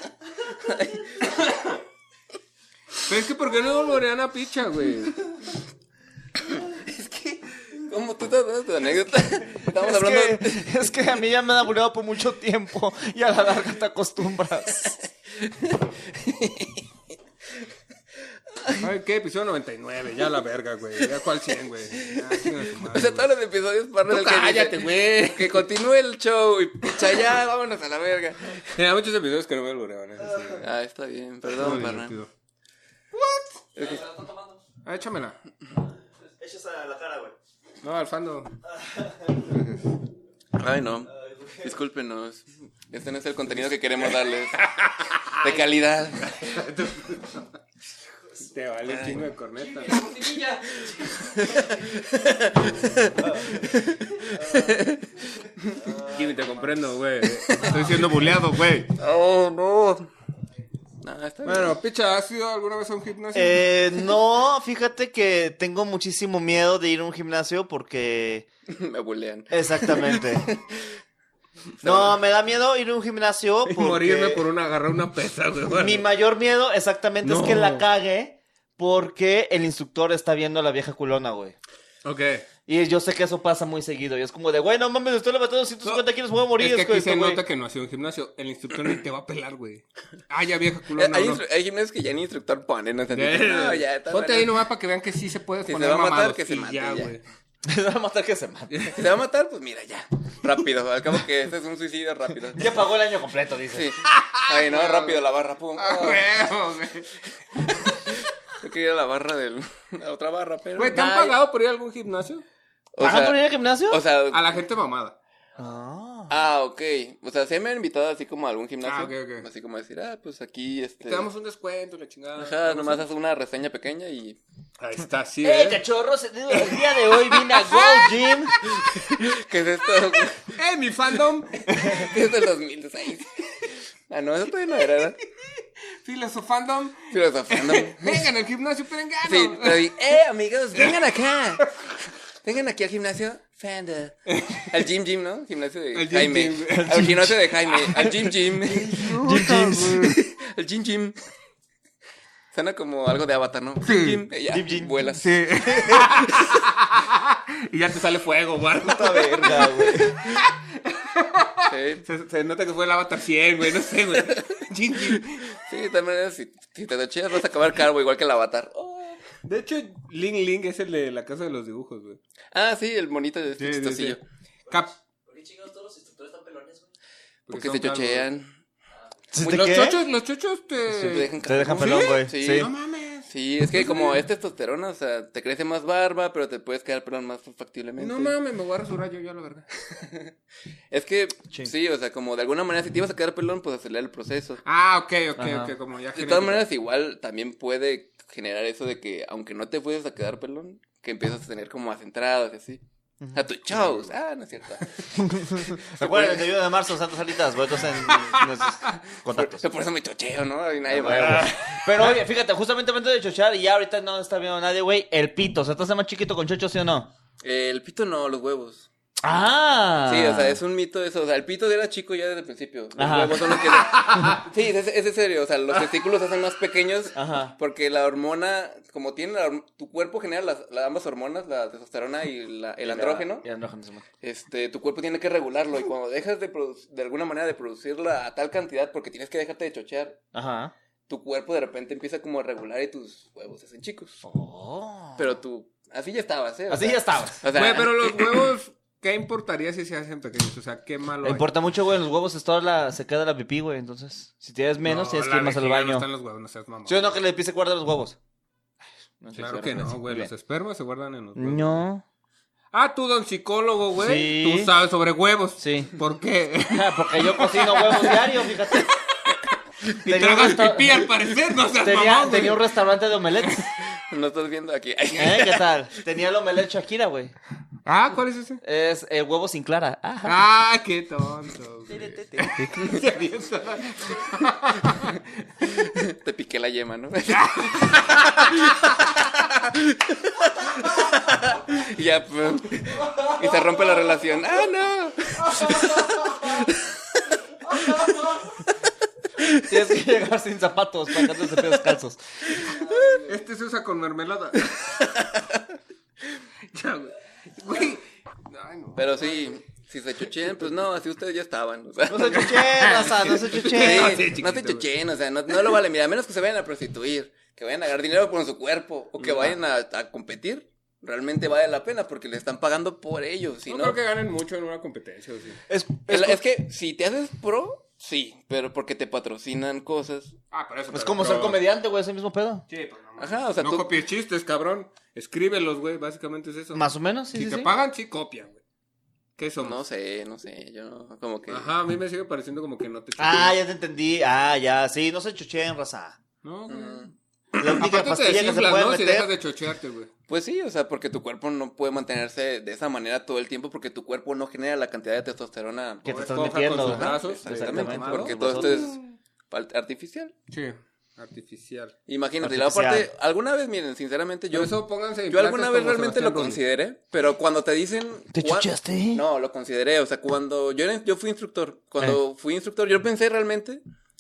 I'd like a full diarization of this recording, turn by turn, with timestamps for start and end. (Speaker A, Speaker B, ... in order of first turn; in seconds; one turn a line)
Speaker A: 0.4-1.4
Speaker B: 3.0-5.2
Speaker A: 6.5-10.9
Speaker C: 9.7-15.0
Speaker A: 15.3-16.9
Speaker A: 18.5-18.8
Speaker B: 18.8-23.3
Speaker A: 22.0-28.8
Speaker B: 24.1-25.7
Speaker B: 28.7-30.6
Speaker A: 30.6-32.2
Speaker B: 31.5-32.3
Speaker A: 33.8-34.1
Speaker C: 33.8-34.5
Speaker B: 34.8-35.4
Speaker C: 36.4-37.4
Speaker B: 37.8-38.5
Speaker C: 38.7-39.3
Speaker B: 39.5-39.8
Speaker A: 40.5-44.6
Speaker C: 41.1-41.7
Speaker B: 44.5-47.5
Speaker A: 45.4-46.5
Speaker B: 48.4-50.1
Speaker A: 48.9-49.2
Speaker D: 49.8-51.2
Speaker A: 50.9-55.1
Speaker C: 55.9-56.1
Speaker B: 56.0-59.0
Speaker A: 57.5-57.9
Speaker A: 59.0-60.1
Speaker A: 61.0-61.8
Speaker B: 61.4-64.0
Speaker C: 63.3-68.5
Speaker A: 68.7-71.0
Speaker C: 69.5-70.5
Speaker A: 71.8-72.1
Speaker C: 71.8-74.4
Speaker B: 73.7-76.1
Speaker C: 75.8-81.5
Speaker B: 77.2-77.9
Speaker B: 82.0-82.5
Speaker C: 82.7-87.4
Speaker B: 86.6-91.4
Speaker A: 90.9-94.5
Speaker B: 93.1-97.2
Speaker A: 95.7-97.1
Speaker C: 97.7-99.0
Speaker A: 98.9-102.8
Speaker C: 102.6-103.9
Speaker A: 103.7-106.3
Speaker B: 104.0-105.2
Speaker B: 105.8-108.0
Speaker A: 108.6-111.4
Speaker B: 110.8-112.4
Speaker A: 112.9-114.6
Speaker C: 113.0-114.0
Speaker B: 114.3-115.2
Speaker C: 115.6-116.3
Speaker A: 116.3-121.3
Speaker B: 118.8-119.5
Speaker B: 121.0-123.1
Speaker A: 122.3-124.4
Speaker B: 124.8-125.8
Speaker C: 125.4-128.6
Speaker B: 126.5-129.0
Speaker A: 129.1-130.6
Speaker B: 130.4-132.2
Speaker A: 131.8-133.4
Speaker A: 134.1-135.2
Speaker B: 135.4-140.2
Speaker A: 137.1-138.3
Speaker A: 139.2-141.7
Speaker B: 140.8-141.0
Speaker A: 142.4-149.1
Speaker B: 144.3-144.8
Speaker B: 145.9-150.2
Speaker C: 146.7-147.3
Speaker C: 148.9-150.2
Speaker A: 150.0-151.2
Speaker A: 152.5-155.3
Speaker B: 153.8-154.2
Speaker C: 154.5-155.0
Speaker B: 155.1-165.6
Speaker C: 155.6-156.1
Speaker C: 158.8-160.2
Speaker A: 161.7-162.0
Speaker A: 164.3-164.6
Speaker A: 165.6-169.2
Speaker B: 169.4-172.2
Speaker A: 172.5-174.2
Speaker B: 173.6-174.9
Speaker D: 175.3-176.9
Speaker B: 177.5-178.3
Speaker A: 177.5-178.5
Speaker C: 179.3-180.0
Speaker B: 179.4-184.3
Speaker C: 180.9-182.7
Speaker A: 181.0-182.7
Speaker A: 183.3-188.4
Speaker B: 188.0-189.7
Speaker A: 189.9-190.3
Speaker A: 190.9-194.6
Speaker B: 194.7-196.7
Speaker C: 195.4-195.7
Speaker A: 196.2-202.8
Speaker C: 203.2-203.5
Speaker A: 203.3-204.9
Speaker C: 205.2-209.6
Speaker A: 205.8-206.5
Speaker A: 209.3-211.6
Speaker C: 210.9-217.1
Speaker B: 211.2-211.4
Speaker A: 217.4-218.9
Speaker C: 219.2-220.6
Speaker A: 220.1-233.5
Speaker C: 223.0-223.6
Speaker B: 223.9-224.3
Speaker C: 227.2-227.6
Speaker C: 232.8-234.0
Speaker A: 234.2-240.2
Speaker C: 240.3-240.7
Speaker A: 241.1-244.2
Speaker C: 244.2-245.3
Speaker A: 245.2-248.5
Speaker C: 246.7-247.4
Speaker B: 247.5-251.5
Speaker C: 251.2-256.1
Speaker B: 254.8-257.2
Speaker C: 256.9-258.2
Speaker C: 259.2-260.3
Speaker B: 259.4-261.8
Speaker C: 261.4-262.0
Speaker B: 262.7-268.3
Speaker C: 264.0-264.7
Speaker C: 265.6-265.9
Speaker C: 266.7-268.9
Speaker B: 269.9-272.7
Speaker C: 270.1-271.1
Speaker C: 271.7-273.7
Speaker B: 273.4-273.7
Speaker A: 274.1-275.6
Speaker C: 275.2-277.3
Speaker B: 277.9-278.6
Speaker C: 278.6-280.4
Speaker B: 280.2-285.9
Speaker C: 281.9-282.9
Speaker A: 285.8-298.4
Speaker B: 287.3-288.9
Speaker C: 299.6-302.2
Speaker A: 302.6-303.3
Speaker B: 303.3-305.0
Speaker A: 305.0-305.6
Speaker B: 306.7-309.5
Speaker A: 309.0-312.7
Speaker C: 312.1-314.3
Speaker B: 312.3-314.9
Speaker A: 313.6-324.0
Speaker B: 323.7-325.6
Speaker C: 325.7-326.4
Speaker A: 326.1-330.4
Speaker B: 330.5-331.7
Speaker C: 330.9-332.7
Speaker B: 332.7-338.6
Speaker A: 333.2-333.9
Speaker C: 336.7-337.7
Speaker B: 339.4-339.8
Speaker A: 339.6-341.7
Speaker B: 341.5-343.5
Speaker C: 343.2-346.2
Speaker B: 346.4-347.1
Speaker A: 346.7-347.1
Speaker C: 347.6-349.3
Speaker B: 347.8-350.1
Speaker A: 350.3-359.0
Speaker C: 356.1-358.8
Speaker B: 356.1-359.1
Speaker A: 359.5-360.3
Speaker B: 360.5-362.0
Speaker A: 362.1-364.8
Speaker C: 362.4-363.1
Speaker B: 364.5-366.6
Speaker A: 365.3-373.8
Speaker C: 368.3-369.2